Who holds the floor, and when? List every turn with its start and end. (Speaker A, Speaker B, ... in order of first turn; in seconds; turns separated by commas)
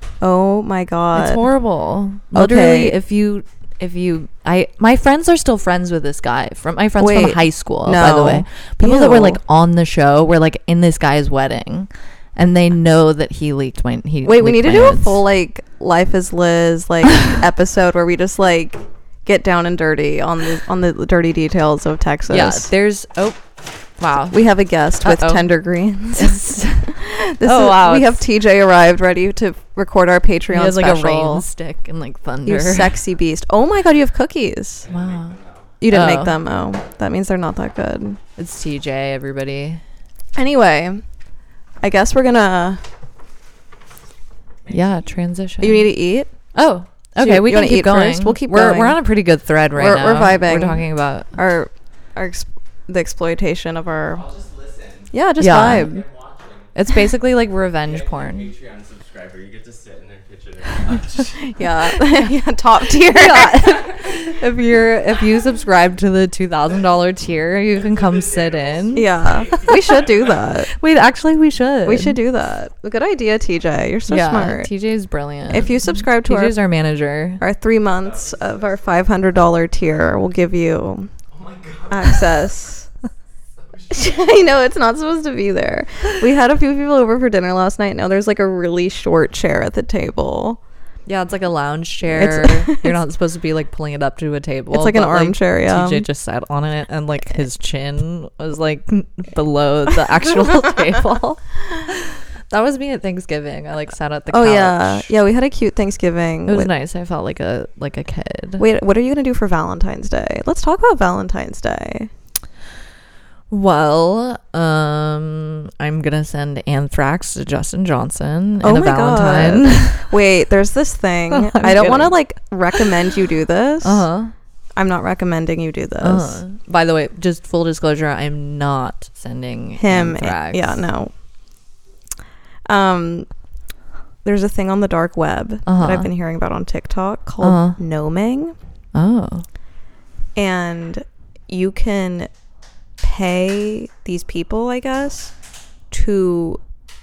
Speaker A: 0.2-1.4, Speaker B: 1.1-15.2, Speaker A: 2.3-2.9, Speaker A: 7.0-9.4, Speaker A: 14.2-22.7, Speaker B: 22.3-23.4, Speaker B: 24.0-24.4, Speaker A: 24.3-31.4, Speaker B: 25.0-25.5, Speaker B: 26.1-28.2, Speaker B: 30.5-33.0, Speaker A: 32.5-34.9, Speaker C: 34.8-35.7, Speaker B: 34.9-36.4, Speaker A: 35.8-38.2, Speaker B: 38.4-39.8, Speaker A: 40.3-41.0, Speaker A: 41.8-42.8, Speaker C: 44.6-45.1, Speaker B: 44.7-45.9, Speaker A: 45.6-46.3, Speaker B: 46.5-51.3, Speaker A: 47.2-49.0, Speaker A: 49.7-54.2, Speaker C: 54.1-56.7, Speaker A: 55.1-56.0, Speaker B: 55.4-55.9, Speaker B: 56.7-58.5, Speaker C: 57.8-62.0, Speaker A: 61.4-63.7, Speaker B: 63.1-70.0, Speaker C: 63.8-64.1, Speaker C: 67.7-70.5, Speaker A: 68.9-70.7, Speaker B: 70.7-72.2, Speaker A: 71.8-74.7, Speaker B: 74.1-77.4, Speaker A: 75.5-76.6, Speaker A: 77.4-81.1, Speaker C: 78.0-79.1, Speaker C: 81.3-82.5, Speaker A: 81.9-82.9, Speaker C: 83.5-84.5, Speaker A: 83.9-90.6, Speaker B: 91.0-105.1, Speaker A: 92.1-92.9, Speaker A: 94.7-96.0, Speaker A: 104.3-106.7, Speaker B: 106.5-108.6, Speaker A: 108.6-112.1, Speaker B: 113.5-120.1, Speaker A: 118.6-124.1, Speaker B: 121.3-122.2, Speaker B: 123.8-124.3, Speaker A: 124.7-126.4, Speaker B: 126.0-130.8, Speaker A: 129.8-131.1, Speaker A: 132.7-133.3, Speaker A: 134.2-138.6, Speaker B: 135.7-136.1, Speaker B: 137.4-137.8, Speaker B: 138.9-139.4, Speaker A: 140.3-142.3, Speaker A: 143.0-145.3, Speaker A: 145.9-146.6